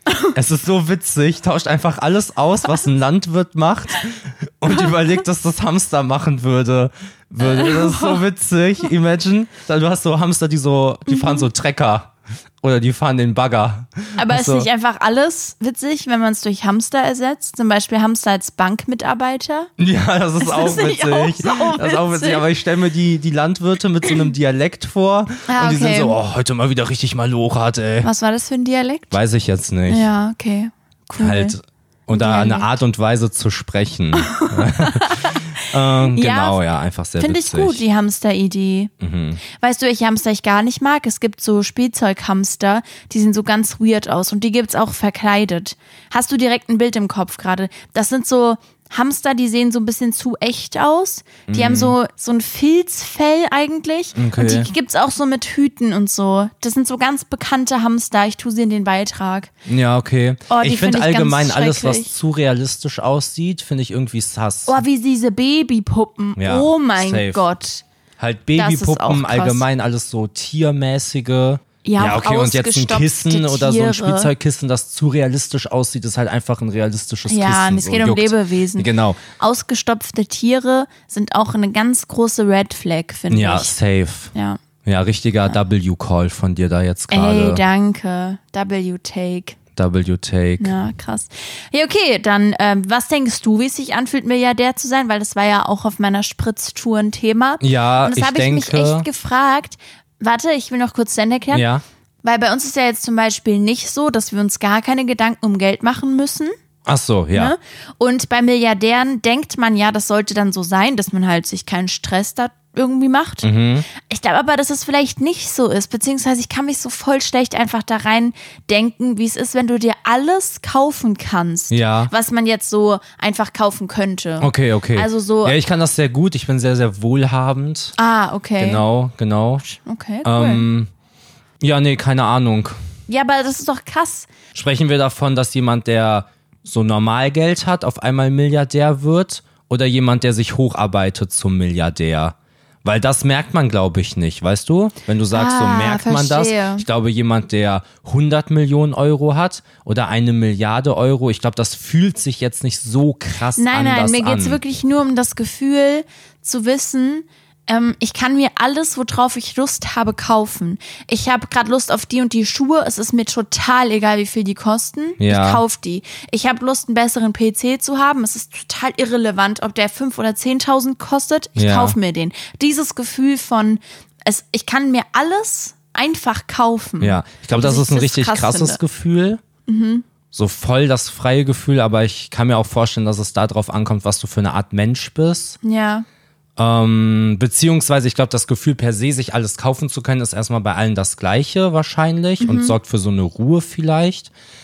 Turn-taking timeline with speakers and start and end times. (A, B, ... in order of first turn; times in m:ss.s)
0:00.3-0:14.7 A
0:07.4-0:08.2 B
0:11.1-0:11.5 B
0:14.2-0:19.7 B
0:19.8-0:28.1 A
0:20.4-0:22.5 B
0:25.5-0:26.2 B
0:28.0-0:29.2 B
0:29.1-0:30.1 A
0:29.9-0:31.5 B
0:31.2-0:37.8 A
0:32.1-0:32.7 B
0:34.1-0:36.6 B
0:37.2-0:38.9 B
0:39.0-0:39.4 A
0:39.5-0:59.5 B
0:51.5-0:51.9 A
0:54.2-0:54.7 A
0:59.6-1:04.8 A
1:00.5-1:02.1 B
1:04.7-1:07.8 B
1:06.4-1:07.4 A
1:08.2-1:19.2 A
1:08.6-1:09.6 B
1:11.8-1:14.3 B
1:17.3-1:23.7 B
1:23.3-1:24.3 A
1:24.3-1:24.6 B
1:24.8-1:27.6 A
1:27.1-1:29.6 B
1:29.8-1:30.8 A
1:30.6-1:41.6 B
1:37.6-1:39.0 A
1:41.5-1:41.8 A
1:42.2-1:46.5 B
1:46.8-1:47.5 A
1:47.3-2:05.6 B
1:53.4-1:53.9 A
2:01.7-2:02.1 A
2:04.4-2:07.9 A
2:08.0-2:08.8 B
2:08.6-2:09.6 A
2:09.6-2:10.7 B
2:10.2-2:10.9 A
2:11.6-2:12.8 A
2:13.1-2:14.3 B
2:14.5-2:34.6 A
2:25.3-2:26.8 B
2:33.6-2:58.8 B
2:45.2-2:45.6 A
2:51.6-2:52.0 A
2:57.0-2:59.4 A
2:59.7-3:00.0 B
3:00.3-3:05.6 A
3:05.6-3:06.0 B
3:06.6-3:14.3 A
3:12.4-3:12.7 B